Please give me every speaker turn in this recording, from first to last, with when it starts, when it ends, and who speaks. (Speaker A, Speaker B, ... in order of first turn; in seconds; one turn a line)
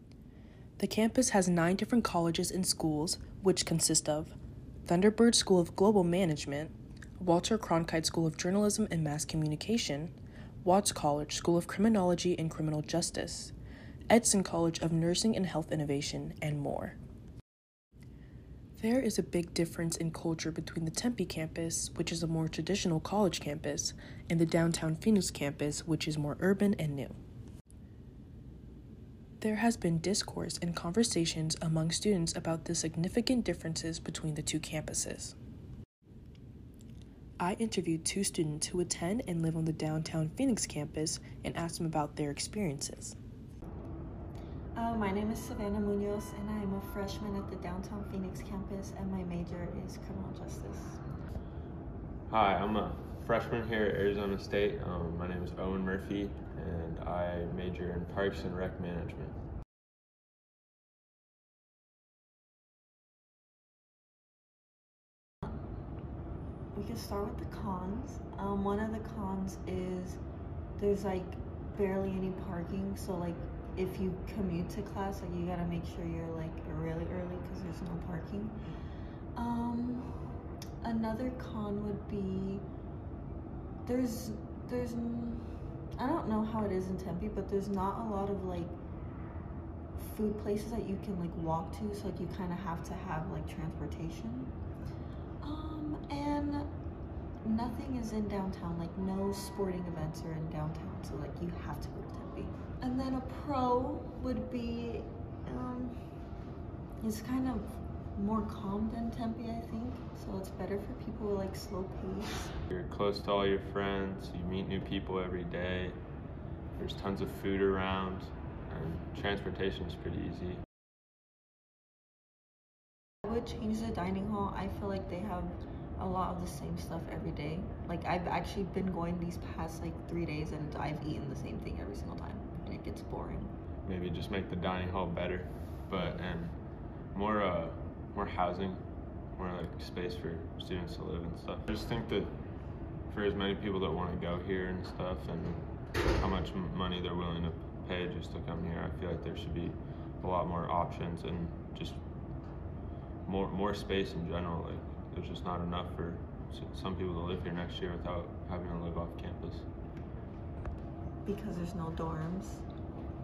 Speaker A: 0.8-13.5
Speaker A: 14.1-17.0
Speaker A: 18.8-27.1
Speaker A: 29.4-35.3
Speaker A: 37.4-43.1
Speaker B: 44.7-51.0
Speaker C: 52.3-59.4
Speaker B: 66.7-70.2
Speaker B: 70.8-78.6
Speaker B: 79.3-82.7
Speaker B: 83.8-88.8
Speaker B: 90.0-94.5
Speaker B: 95.4-96.7
Speaker B: 97.4-106.2
Speaker B: 107.0-112.5
Speaker C: 112.7-116.0
Speaker C: 116.7-120.6
Speaker B: 123.2-133.5
Speaker C: 133.8-152.0
Speaker C: 153.2-159.7
Speaker B: 161.2-162.7